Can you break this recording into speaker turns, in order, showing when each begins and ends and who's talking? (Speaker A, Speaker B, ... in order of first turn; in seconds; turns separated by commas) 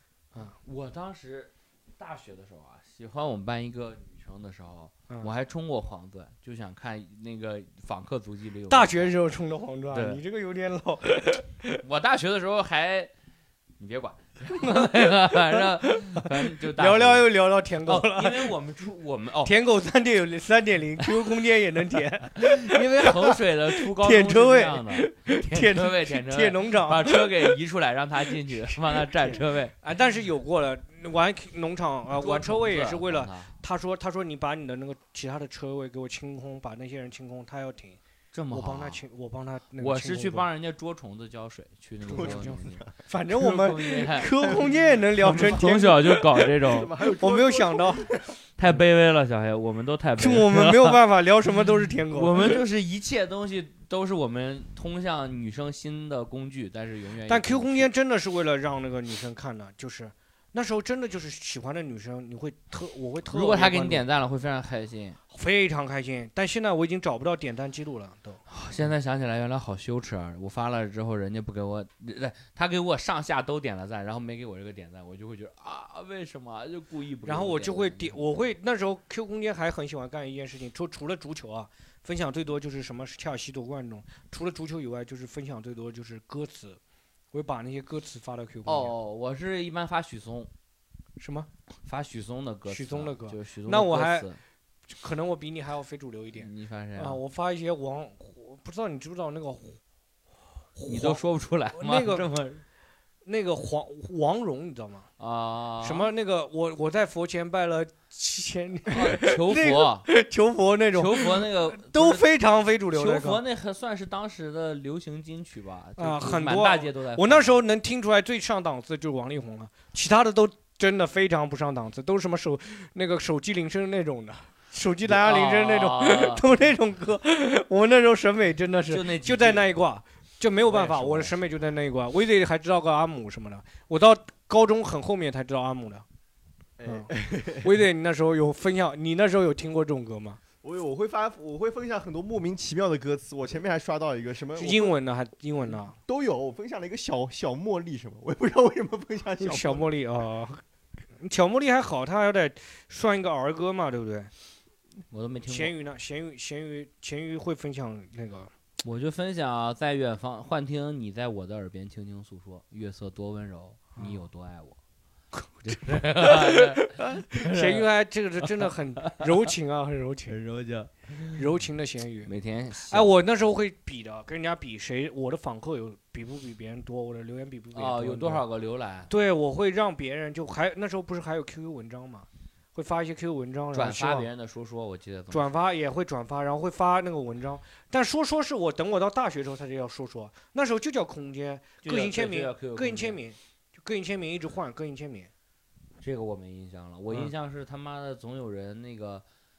Speaker A: 0.6-9.2, Speaker B: 8.7-11.8, Speaker A: 9.9-10.2, Speaker A: 11.8-13.1, Speaker A: 13.8-17.3, Speaker B: 14.5-18.5, Speaker A: 17.8-19.5, Speaker B: 19.4-27.6, Speaker A: 22.4-29.8, Speaker B: 28.6-38.0, Speaker A: 32.1-33.5, Speaker A: 38.3-39.0, Speaker B: 38.5-40.5, Speaker A: 39.8-44.5, Speaker B: 42.1-46.0, Speaker C: 42.1-42.9, Speaker C: 44.4-48.4, Speaker A: 45.2-46.9, Speaker B: 47.1-48.1, Speaker A: 48.6-51.0, Speaker B: 50.2-52.6, Speaker A: 51.6-57.9, Speaker B: 57.3-64.0, Speaker A: 63.3-65.2, Speaker B: 65.3-68.4, Speaker A: 68.5-78.2, Speaker B: 77.2-86.8, Speaker B: 87.3-88.9, Speaker A: 88.7-90.5, Speaker B: 91.2-91.5, Speaker A: 91.8-94.4, Speaker B: 92.7-94.3, Speaker B: 94.9-99.8, Speaker A: 96.4-97.2, Speaker B: 100.8-101.2, Speaker A: 100.8-102.6, Speaker B: 101.7-102.3, Speaker B: 103.2-105.1, Speaker A: 105.2-106.1, Speaker B: 105.8-113.4, Speaker A: 108.9-110.1, Speaker A: 110.9-112.3, Speaker A: 112.9-117.6, Speaker B: 116.0-136.1, Speaker A: 125.1-126.5, Speaker A: 128.9-129.7, Speaker A: 130.7-131.3, Speaker C: 136.8-137.7, Speaker B: 137.6-140.4, Speaker C: 140.6-145.0, Speaker B: 144.6-146.0, Speaker C: 145.9-149.9, Speaker B: 149.4-150.6, Speaker B: 151.2-154.3, Speaker A: 155.1-155.7, Speaker B: 155.5-158.5, Speaker A: 158.8-164.8, Speaker B: 164.0-164.2, Speaker A: 165.6-167.9, Speaker B: 165.7-170.4, Speaker A: 168.4-169.3, Speaker A: 170.3-171.4, Speaker B: 171.3-172.3, Speaker A: 172.2-173.1, Speaker B: 172.9-178.4, Speaker A: 177.7-179.1, Speaker B: 179.1-184.3, Speaker A: 183.7-185.5, Speaker B: 185.3-195.3, Speaker A: 191.8-193.2, Speaker A: 196.0-199.2